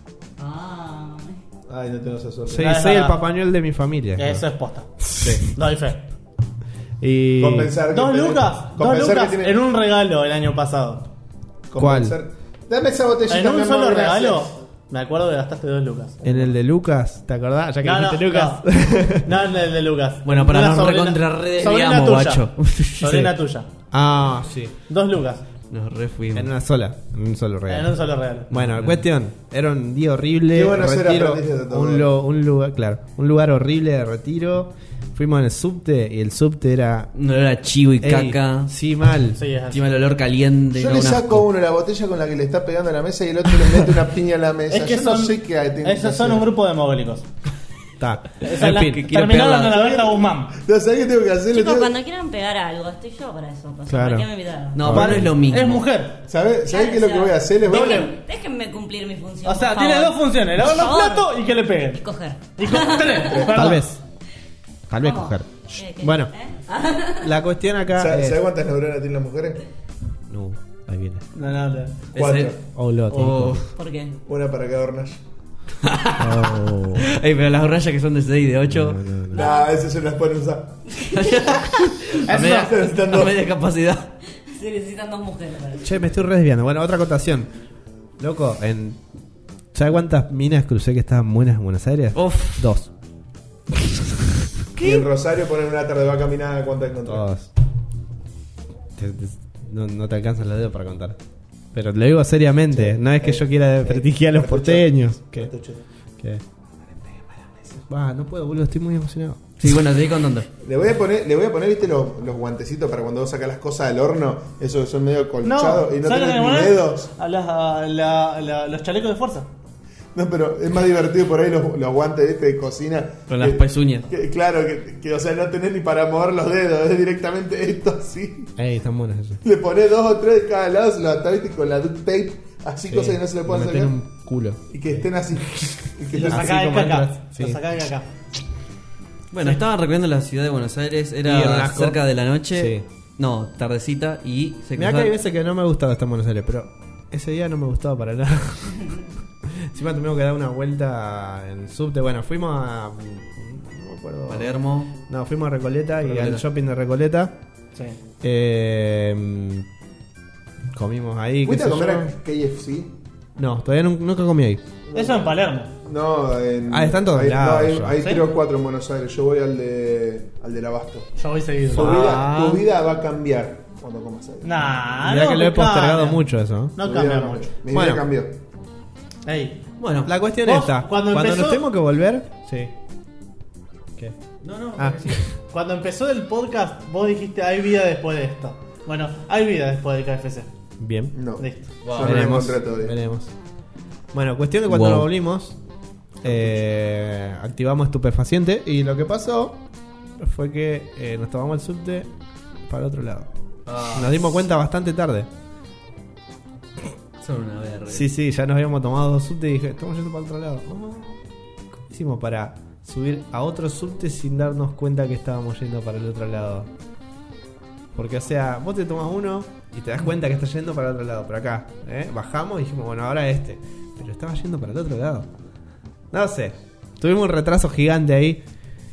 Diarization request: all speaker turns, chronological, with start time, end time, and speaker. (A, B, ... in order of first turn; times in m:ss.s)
0:00.4-0:01.4 A
0:01.7-0:02.8 B
0:02.5-0:04.4 C
0:02.6-0:03.2 D
0:04.2-0:04.9 D
0:05.0-0:05.5 C
0:05.4-0:06.0 D
0:07.0-0:07.7 C
0:07.4-0:09.6 B
0:07.9-0:11.1 D
0:11.7-0:14.5 B
0:11.8-0:12.2 C
0:13.3-0:16.5 D
0:16.2-0:19.3 C
0:17.8-0:22.5 D
0:20.2-0:23.3 E
0:23.0-0:23.7 D
0:23.9-0:24.7 C
0:24.9-0:25.4 D
0:25.7-0:26.5 E
0:26.3-0:28.0 C
0:27.7-0:28.5 D
0:28.5-0:37.1 C
0:28.5-0:29.0 E
0:30.5-0:32.1 B
0:37.1-0:38.7 E
0:38.0-0:39.4 C
0:39.4-0:39.8 D
0:39.7-0:41.4 E
0:40.7-0:46.5 B
0:44.7-0:47.3 D
0:48.0-0:49.1 C
0:48.4-0:50.6 D
0:48.6-0:50.0 E
0:50.1-0:51.9 B
0:51.5-0:55.0 A
0:53.9-0:55.4 C
0:54.7-0:55.8 E
0:54.9-0:56.2 D
0:56.3-0:58.1 B
0:56.7-1:01.3 A
0:57.6-0:58.1 D
0:59.4-1:02.0 D
1:01.9-1:03.6 A
1:02.6-1:03.8 D
1:03.5-1:04.0 C
1:04.9-1:06.3 C
1:05.0-1:07.3 A
1:07.2-1:08.4 C
1:07.9-1:09.6 B
1:10.3-1:11.2 C
1:11.3-1:12.0 D
1:12.1-1:12.6 E
1:12.1-1:12.6 B
1:12.7-1:13.6 C
1:13.1-1:13.7 E
1:13.8-1:14.1 A
1:14.2-1:15.2 B
1:15.8-1:19.0 E
1:16.2-1:17.1 C
1:18.7-1:19.5 C
1:19.3-1:20.8 B
1:19.3-1:19.8 A
1:21.1-1:24.1 E
1:22.2-1:22.8 D
1:22.4-1:23.4 B
1:24.5-1:25.9 A
1:25.8-1:27.5 C
1:28.2-1:29.0 C
1:29.7-1:32.9 C
1:32.1-1:32.7 E
1:34.8-1:35.1 E
1:34.8-1:37.3 B
1:37.0-1:37.5 C
1:39.0-1:41.2 C
1:41.7-1:45.5 C
1:42.7-1:45.8 B
1:47.0-1:47.8 B
1:47.9-1:49.5 C
1:49.6-1:50.5 E
1:50.6-1:57.1 B
1:55.4-1:59.5 D
2:00.1-2:08.5 B
2:03.3-2:04.1 E
2:08.6-2:09.4 C
2:09.4-2:14.0 B
2:12.9-2:14.6 C
2:14.7-2:16.6 B
2:15.6-2:17.6 C
2:16.1-2:18.1 D
2:19.3-2:25.1 E
2:21.2-2:22.8 C
2:24.8-2:37.4 C
2:34.3-2:34.9 E
2:36.0-2:36.4 E
2:38.2-2:39.7 C
2:40.7-2:42.1 C
2:41.4-2:42.9 B
2:43.4-2:44.6 C
2:44.9-2:45.7 D
2:44.9-2:45.3 B
2:45.8-2:51.1 B
2:46.7-2:48.0 C
2:51.2-2:52.1 D
2:51.7-2:54.5 B
2:51.7-2:52.6 E
2:51.8-2:52.4 C
2:54.4-2:56.2 D
2:55.0-2:56.8 C
2:56.8-2:57.5 D
2:56.8-2:58.4 B
2:57.7-2:58.1 C
2:59.2-2:59.6 D
2:59.8-3:00.1 E
3:00.0-3:02.7 C
3:00.4-3:01.6 D
3:04.4-3:05.2 E
3:04.7-3:05.2 C
3:05.5-3:10.5 D
3:10.8-3:11.2 C
3:11.1-3:13.0 B
3:11.4-3:11.7 D
3:11.8-3:12.4 E
3:12.0-3:13.3 C
3:14.1-3:15.6 C
3:14.7-3:15.1 E
3:16.2-3:19.6 C
3:20.2-3:22.1 C
3:22.7-3:25.3 C
3:23.6-3:24.2 E
3:27.2-3:28.1 E
3:27.9-3:31.2 C
3:31.9-3:36.7 C
3:37.9-3:45.3 C
3:46.1-3:48.4 C